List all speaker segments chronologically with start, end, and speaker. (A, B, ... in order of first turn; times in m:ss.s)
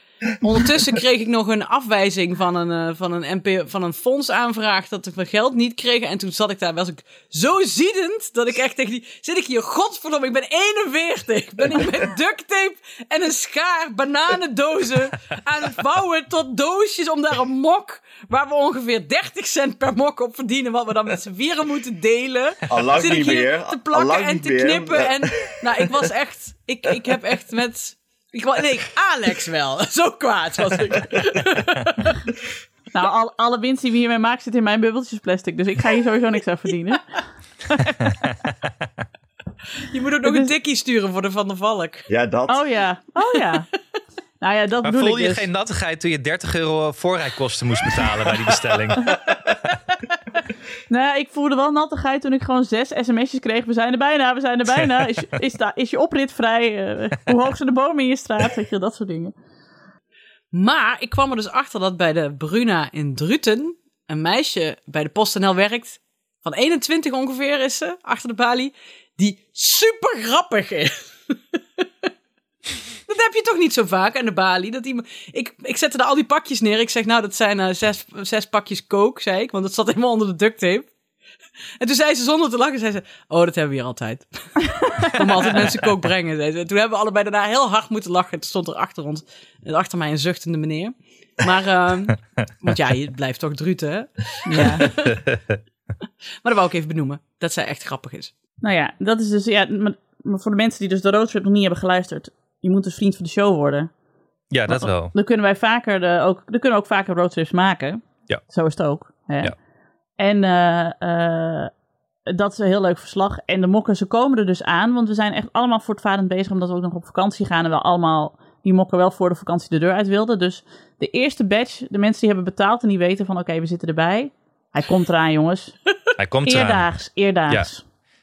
0:00.4-0:32.1 A
0:22.7-0:25.9 B
0:32.9-0:37.1 C
0:37.7-0:38.0 C
0:39.8-0:42.1 A
0:40.2-0:40.5 C
0:42.1-0:42.7 B
0:42.5-0:43.7 C
0:44.4-0:45.5 C
0:44.8-0:49.1 D
0:50.9-0:59.3 C
1:00.5-1:11.8 A
1:13.1-1:20.9 A
1:21.8-1:35.2 A
1:34.5-1:34.9 C
1:36.4-1:38.3 A
1:38.6-1:43.9 C
1:44.5-1:45.1 D
1:44.7-1:49.5 C
1:50.2-1:51.7 C
1:52.3-2:05.8 C
2:06.2-2:06.9 D
2:06.5-2:07.8 C